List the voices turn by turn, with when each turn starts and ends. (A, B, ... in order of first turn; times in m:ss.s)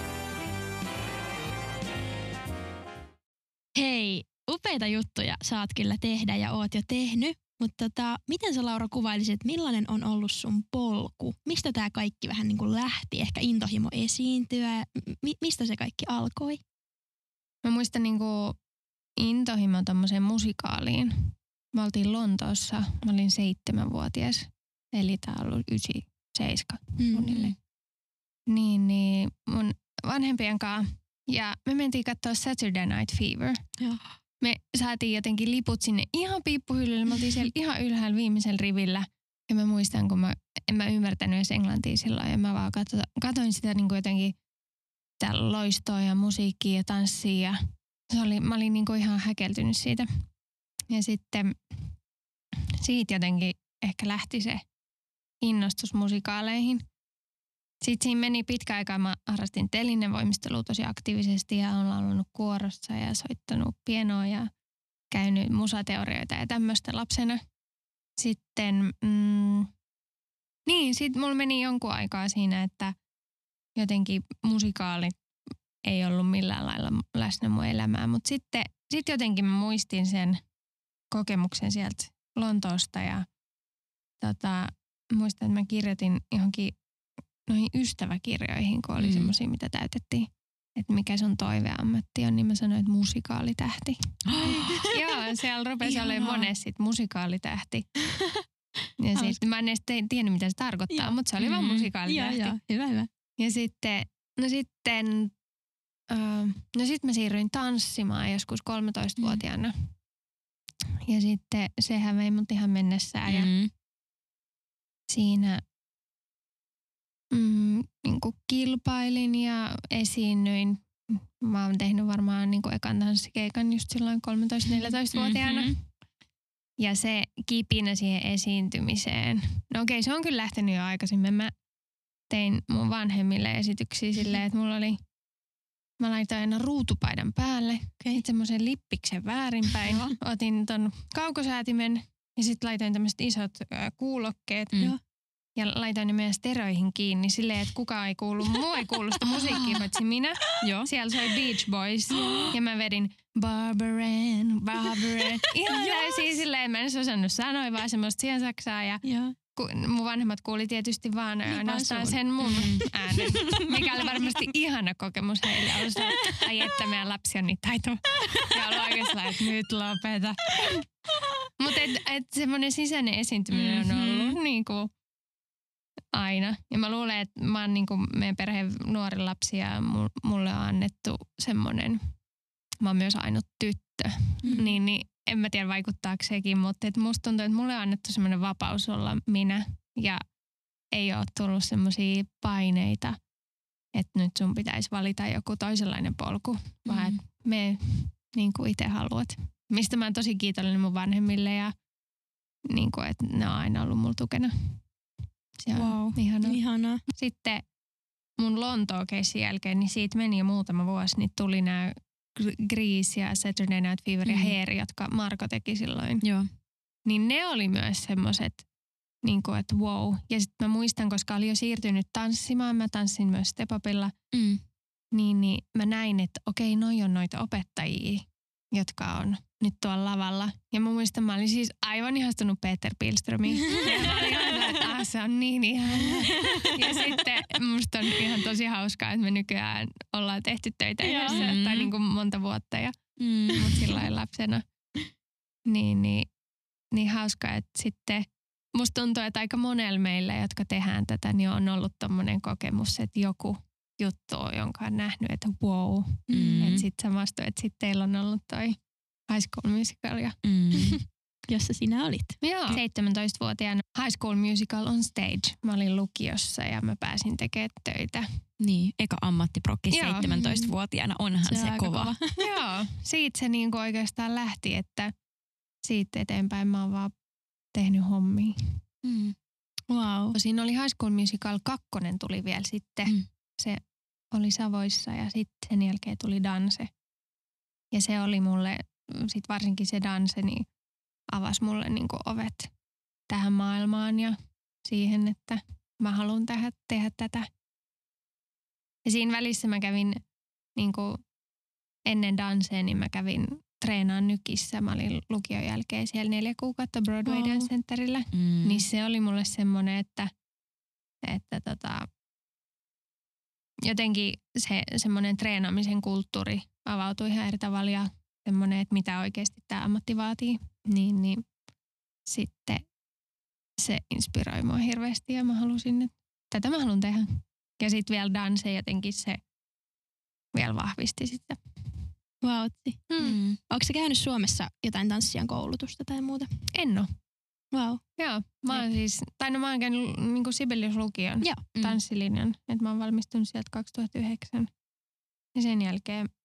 0:03.8-0:16.6 A
0:17.6-0:18.6 B
0:19.2-0:27.5 B
0:27.0-0:27.4 A
0:28.5-0:33.6 B
0:34.4-0:44.3 B
0:45.2-0:50.1 B
0:50.9-0:51.6 B
0:52.8-0:54.6 B
0:55.4-0:56.8 B
0:57.8-1:04.5 B
1:05.1-1:07.4 B
1:08.2-1:09.7 B
1:10.6-1:12.9 B
1:13.8-1:15.2 B
1:15.8-1:20.4 B
1:21.1-1:23.2 B
1:24.2-1:26.8 B
1:27.5-1:34.0 B
1:29.0-1:29.3 C
1:34.2-1:35.0 C
1:34.4-1:34.8 A
1:34.8-1:37.9 B
1:35.8-1:36.5 A
1:39.0-1:42.6 B
1:40.9-1:41.2 A
1:41.4-1:41.9 C
1:42.0-1:43.1 A
1:43.4-1:45.3 B
1:46.1-1:49.9 B
1:51.0-1:53.5 B
1:53.2-1:53.7 C
1:55.1-1:55.6 B
1:57.3-2:05.8 B
2:05.1-2:05.8 C
2:06.8-2:11.5 B
2:12.3-2:15.0 B
2:16.0-2:24.8 B
2:25.6-2:39.0 B
2:29.3-2:29.8 C
2:35.7-2:36.3 A
2:39.0-2:39.3 A
2:39.6-2:50.8 B
2:41.5-2:44.0 A
2:42.4-2:42.8 C
2:51.6-2:54.9 B
2:53.5-2:54.4 C
2:56.1-3:02.0 B
3:02.8-3:10.2 B
3:04.4-3:04.8 A
3:10.9-3:13.2 B
3:13.9-3:21.7 B
3:16.8-3:17.2 C
3:22.7-3:24.8 B
3:25.6-3:27.6 B
3:25.8-3:26.1 C
3:25.8-3:27.0 A
3:28.4-3:36.2 B
3:34.2-3:34.6 C
3:36.2-3:36.5 C
3:37.0-3:38.6 B
3:39.2-3:44.1 B
3:44.3-3:44.6 C
3:45.1-4:02.9 B
3:53.5-3:54.6 A
3:56.0-3:57.2 A
4:01.0-4:01.5 A
4:01.3-4:01.9 C
4:03.2-4:03.8 C
4:03.5-4:04.6 B
4:05.6-4:06.3 B
4:06.9-4:18.8 B
4:16.3-4:16.8 A
4:16.3-4:16.9 C
4:19.3-4:20.4 B
4:20.4-4:21.0 C
4:21.5-4:22.4 A
4:22.4-4:28.3 B
4:28.6-4:32.1 C
4:29.9-4:30.3 B
4:30.2-4:30.7 A
4:31.4-4:32.5 A
4:32.4-4:35.1 B
4:35.8-4:37.1 B
4:37.7-4:38.8 B
4:39.0-4:39.4 C
4:39.9-4:40.4 A
4:40.3-4:43.8 B
4:44.3-4:46.9 B
4:47.9-4:50.7 B
4:51.3-4:52.7 B
4:53.3-4:57.5 B
4:59.0-5:00.2 B
5:00.8-5:01.2 B
5:02.0-5:10.3 B
5:07.2-5:07.7 A
5:08.3-5:08.8 C
5:11.2-5:12.1 B
5:13.8-5:21.4 B
5:22.3-5:22.8 B
5:23.8-5:29.4 B
5:30.5-5:32.0 B
5:32.4-5:36.5 A
5:33.1-5:33.4 B
5:33.2-5:33.6 C
5:36.7-5:37.1 B
5:37.7-5:38.0 A
5:38.2-5:44.7 B
5:41.7-5:42.0 C
5:45.5-5:46.3 B